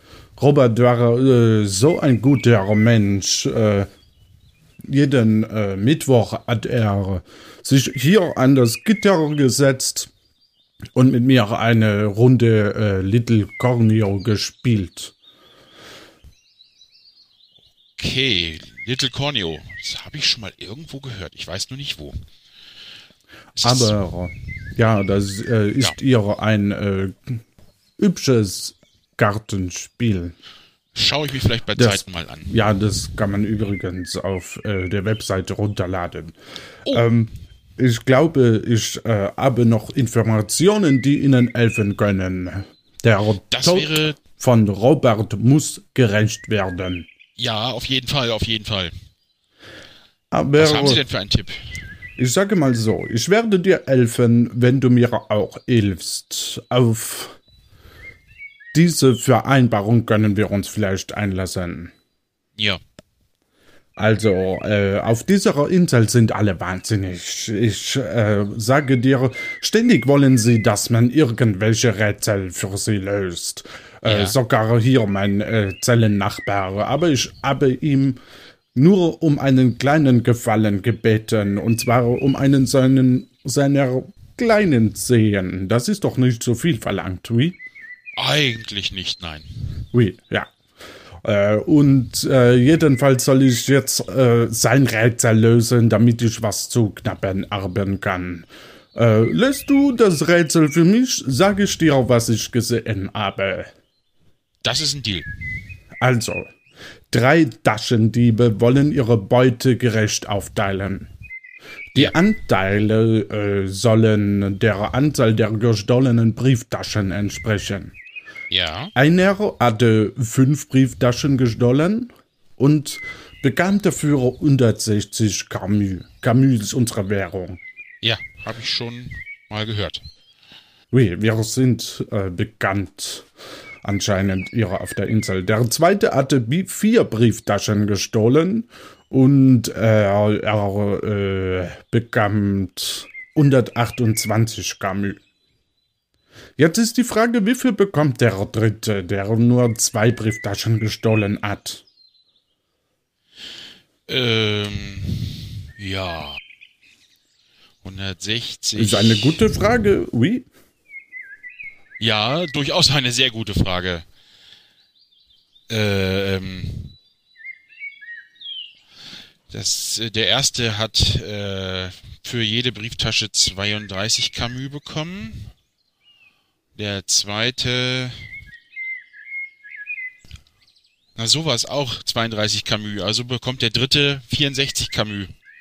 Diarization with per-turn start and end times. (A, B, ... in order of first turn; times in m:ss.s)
0:00.4-0:03.9 A
0:04.8-0:10.1 A
0:11.0-0:15.1 A
0:18.0-0:22.2 B
0:23.6-0:23.9 B
0:23.6-0:27.4 A
0:28.0-0:30.3 A
0:30.9-0:32.5 B
0:31.8-0:36.3 A
0:36.9-0:47.1 A
0:43.5-0:44.2 B
0:47.4-0:48.9 B
0:50.3-0:51.0 A
0:50.6-0:51.8 B
0:52.2-0:57.4 A
0:58.7-1:01.9 A
1:04.0-1:18.2 A
1:14.0-1:14.4 B
1:18.7-1:27.6 A
1:28.2-1:29.5 B
1:29.9-1:30.5 A
1:31.2-1:43.7 A
1:44.6-1:45.3 B
1:46.0-1:46.5 A
1:47.1-1:51.1 A
1:51.9-1:57.9 A
1:58.5-1:58.9 B
1:59.0-2:07.6 A
2:08.0-2:10.0 B
2:10.9-2:13.3 A
2:13.8-2:25.2 A
2:26.6-2:31.8 A
2:34.1-2:36.4 B
2:37.8-2:39.3 B
2:38.8-2:40.5 A
2:42.0-2:44.0 B
2:45.7-2:46.9 B
2:49.5-2:55.5 B
2:56.8-2:58.3 B
3:01.2-3:05.3 B